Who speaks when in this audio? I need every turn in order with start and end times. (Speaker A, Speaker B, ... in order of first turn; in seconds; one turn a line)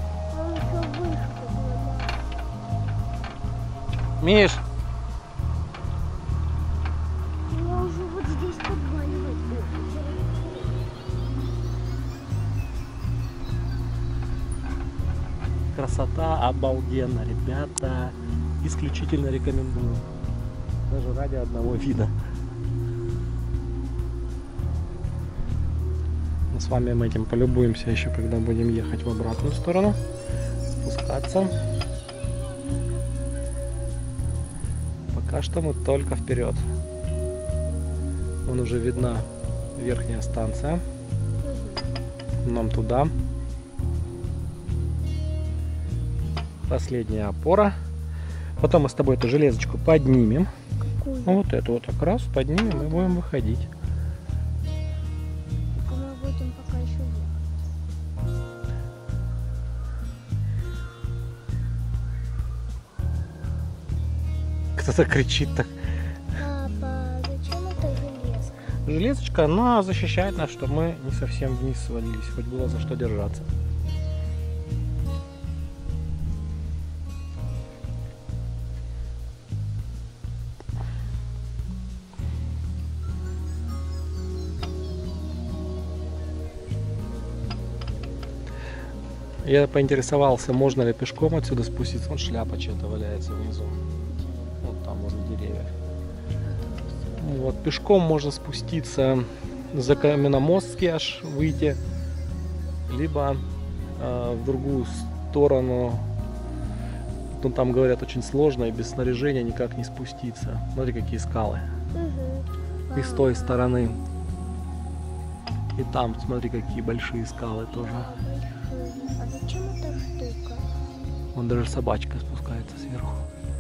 Speaker A: 0.1-2.2
Speaker B: 4.2-4.6
Speaker A: 7.5-10.8
Speaker B: 15.7-20.1
Speaker B: 20.9-22.1
Speaker B: 26.5-30.0
Speaker B: 30.8-31.5
Speaker B: 35.1-36.6
Speaker B: 38.5-40.8
Speaker A: 41.4-41.9
Speaker B: 42.4-43.1
Speaker B: 46.7-47.7
Speaker B: 48.6-50.5
Speaker A: 50.8-51.4
Speaker B: 51.3-53.7
Speaker A: 52.6-53.2
Speaker A: 55.8-57.5
Speaker B: 64.8-65.7
Speaker A: 66.4-68.7
Speaker B: 68.8-73.5
Speaker B: 89.4-93.7
Speaker A: 94.1-94.6
Speaker B: 94.6-95.7
Speaker A: 96.5-97.4
Speaker B: 97.2-101.8
Speaker A: 99.9-100.3
Speaker B: 102.9-103.4
Speaker B: 104.0-106.0
Speaker B: 107.3-111.6
Speaker A: 111.9-113.7
Speaker B: 112.9-114.0
Speaker B: 115.7-118.1
Speaker A: 117.8-120.7
Speaker B: 121.3-123.2